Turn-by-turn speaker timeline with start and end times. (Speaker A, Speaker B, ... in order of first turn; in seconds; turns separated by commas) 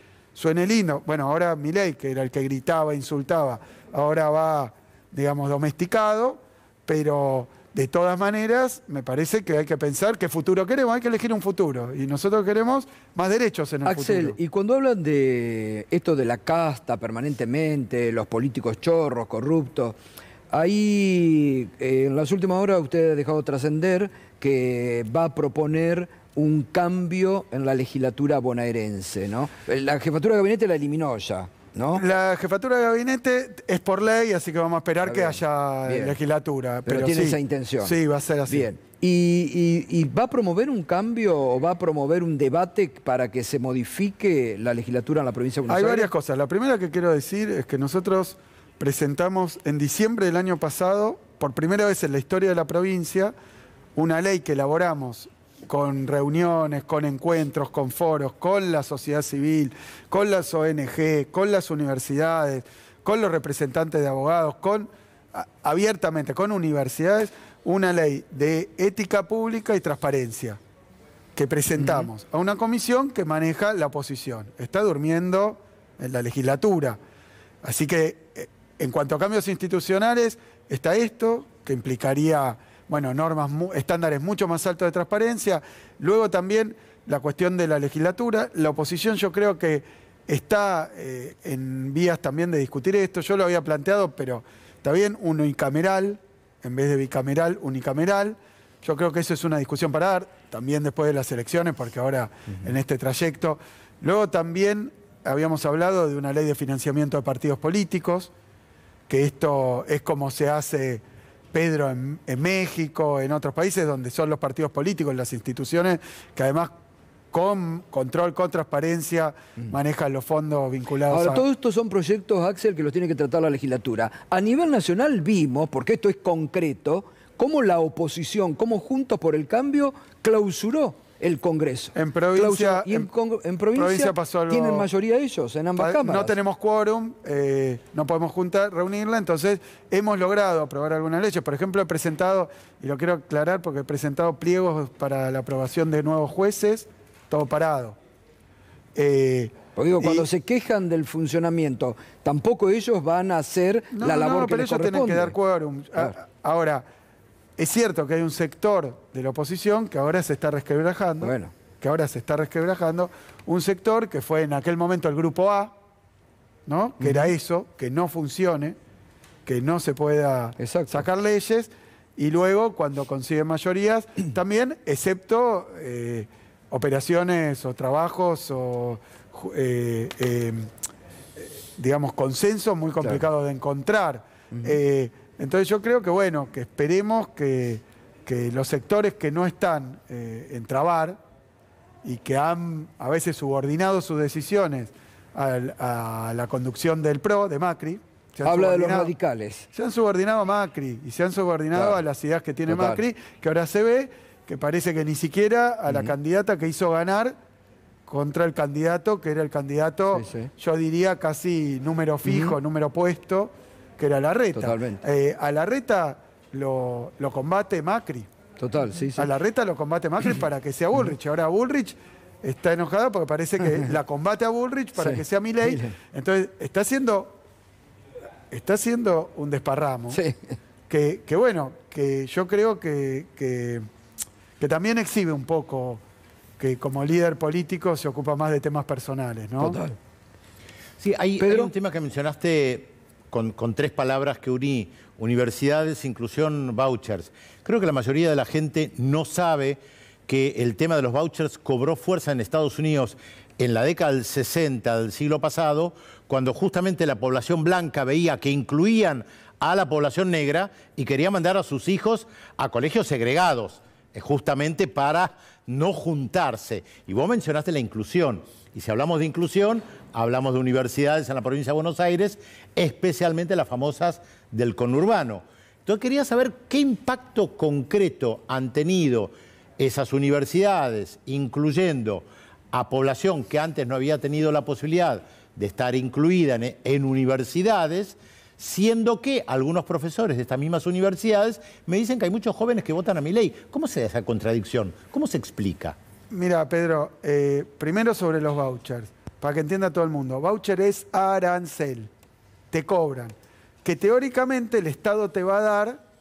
Speaker A: 0.3-14.4, Speaker B: 13.8-20.0, Speaker B: 20.5-32.0, Speaker A: 31.9-38.7, Speaker B: 35.0-36.1, Speaker B: 36.9-38.0, Speaker B: 38.5-46.1, Speaker A: 45.7-53.3, Speaker A: 54.0-70.6, Speaker A: 71.3-77.0, Speaker B: 71.8-72.1, Speaker A: 77.6-108.3, Speaker A: 109.1-116.7, Speaker A: 117.3-121.4, Speaker B: 121.1-136.3, Speaker A: 131.9-133.1, Speaker A: 133.7-134.9, Speaker A: 135.8-148.0, Speaker A: 148.9-150.3, Speaker B: 149.8-155.3, Speaker A: 153.9-156.9, Speaker A: 157.6-165.7, Speaker B: 161.2-161.5, Speaker A: 166.7-168.8, Speaker B: 167.0-167.3, Speaker A: 169.4-180.7, Speaker B: 170.6-171.0, Speaker A: 181.4-191.2, Speaker A: 192.0-199.1, Speaker B: 198.4-199.7, Speaker A: 199.7-207.4, Speaker B: 202.7-203.0, Speaker A: 208.1-218.3, Speaker B: 210.1-210.5, Speaker B: 212.2-212.5, Speaker B: 214.6-215.0, Speaker B: 218.6-219.3, Speaker A: 219.2-227.4, Speaker B: 224.9-225.9, Speaker A: 228.5-230.2, Speaker B: 230.1-230.4, Speaker A: 230.9-233.9, Speaker A: 234.6-236.0, Speaker A: 236.6-239.8, Speaker B: 239.6-239.9, Speaker C: 241.0-295.9, Speaker B: 241.4-241.7, Speaker A: 296.3-302.1, Speaker A: 302.7-306.0